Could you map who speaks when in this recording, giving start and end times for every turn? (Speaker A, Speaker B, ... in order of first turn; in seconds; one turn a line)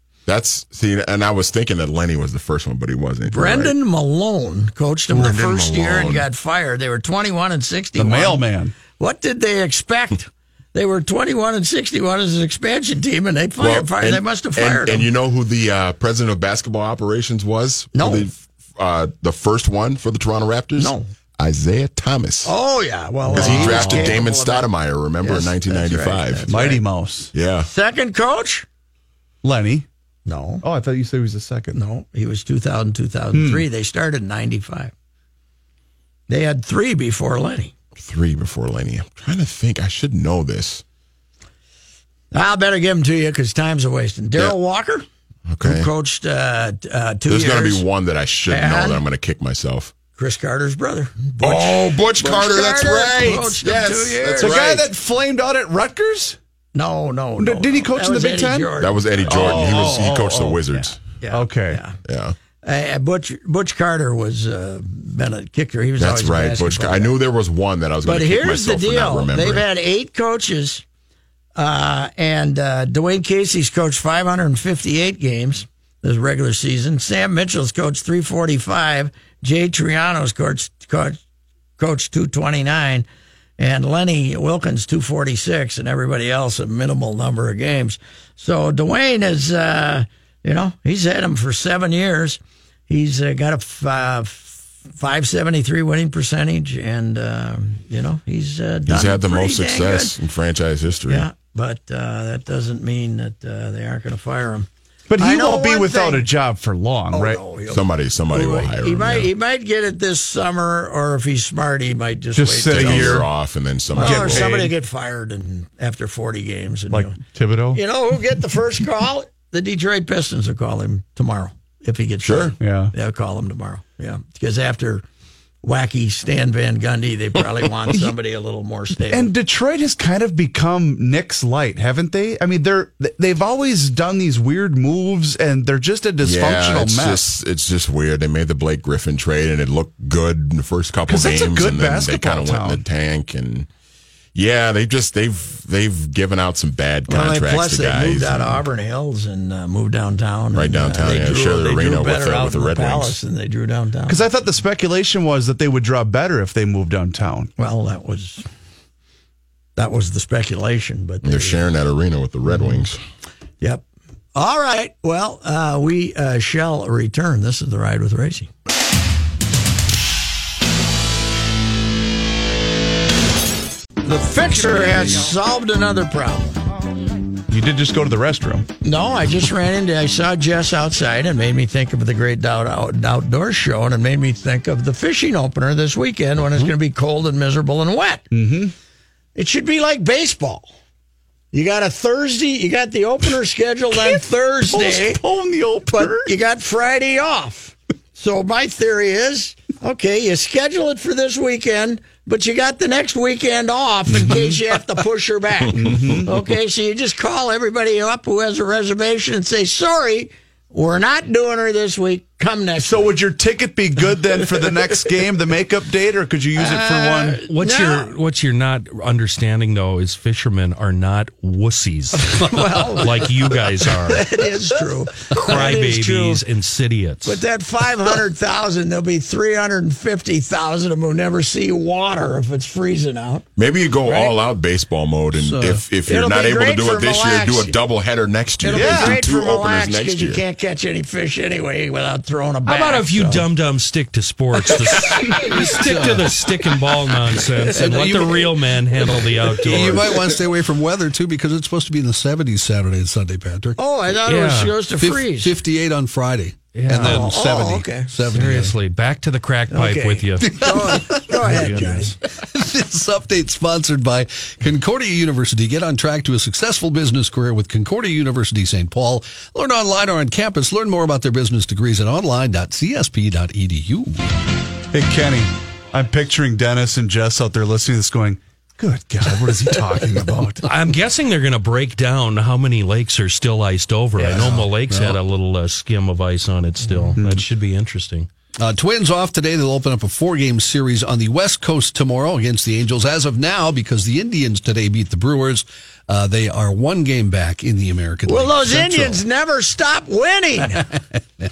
Speaker A: 0.3-3.7
Speaker B: 3.3-15.1
Speaker A: 5.1-6.3
Speaker C: 8.0-8.8
Speaker A: 13.6-22.5
Speaker B: 17.9-18.3
Speaker B: 20.8-21.1
Speaker B: 22.4-24.7
Speaker C: 23.3-24.1
Speaker A: 23.3-26.5
Speaker B: 25.2-26.8
Speaker C: 26.5-27.3
Speaker A: 27.3-27.7
Speaker B: 27.7-28.7
Speaker C: 29.4-29.9
Speaker B: 30.3-30.6
Speaker C: 30.6-31.8
Speaker B: 31.7-34.9
Speaker C: 33.3-33.6
Speaker B: 36.3-37.7
Speaker A: 38.0-40.8
Speaker B: 42.3-45.1
Speaker A: 45.5-45.9
Speaker B: 45.6-47.9
Speaker A: 47.3-49.9
Speaker B: 48.5-49.0
Speaker B: 50.2-54.6
Speaker A: 51.4-54.9
Speaker C: 54.4-56.4
Speaker B: 56.8-59.8
Speaker C: 57.4-58.7
Speaker A: 58.8-61.0
Speaker C: 59.2-61.8
Speaker B: 61.2-62.0
Speaker A: 62.0-62.4
Speaker B: 62.6-67.2
Speaker A: 66.0-69.7
Speaker B: 68.0-70.8
Speaker B: 71.6-81.2
Speaker B: 81.8-83.1
Speaker B: 83.6-100.2
Speaker A: 98.9-101.3
Speaker B: 101.1-104.7
Speaker C: 105.1-107.4
Speaker B: 105.2-106.3
Speaker B: 107.1-113.3
Speaker A: 107.7-109.3
Speaker C: 112.4-113.3
Speaker A: 112.7-114.6
Speaker B: 114.0-117.2
Speaker C: 114.0-114.7
Speaker C: 116.9-117.8
Speaker B: 117.7-125.0
Speaker A: 122.2-122.5
Speaker C: 122.6-122.9
Speaker B: 125.6-129.3
Speaker C: 129.1-137.2
Speaker A: 136.2-143.7
Speaker C: 141.1-142.8
Speaker A: 144.3-148.7
Speaker B: 147.1-154.3
Speaker A: 150.5-153.2
Speaker C: 154.1-157.5
Speaker B: 157.6-158.4
Speaker B: 159.8-161.6
Speaker A: 161.2-163.0
Speaker B: 163.6-168.5
Speaker B: 174.0-176.6
Speaker C: 177.5-178.7
Speaker B: 178.8-188.3
Speaker C: 188.3-188.7
Speaker B: 189.3-190.7
Speaker B: 191.5-195.2
Speaker C: 194.7-196.3
Speaker B: 195.9-213.1
Speaker C: 204.1-204.6
Speaker C: 205.7-206.3
Speaker C: 212.8-217.5
Speaker B: 216.6-218.1
Speaker D: 217.5-224.3
Speaker B: 222.2-226.4
Speaker D: 225.3-227.4
Speaker B: 227.2-233.5
Speaker A: 233.6-240.4
Speaker E: 235.3-235.8
Speaker B: 236.1-237.8
Speaker B: 238.6-243.5
Speaker C: 238.7-239.2
Speaker D: 242.7-250.4
Speaker E: 245.4-247.0
Speaker E: 247.6-253.8
Speaker B: 253.8-255.6
Speaker D: 254.2-254.8
Speaker E: 255.0-258.8
Speaker D: 256.8-257.4
Speaker B: 256.9-258.1
Speaker D: 258.3-262.1
Speaker B: 259.7-262.2
Speaker E: 260.4-261.9
Speaker E: 262.4-274.2
Speaker C: 274.9-280.7
Speaker D: 280.7-288.3
Speaker E: 284.2-285.2
Speaker E: 286.8-287.1
Speaker C: 287.2-287.4
Speaker E: 288.6-299.2
Speaker B: 298.3-300.9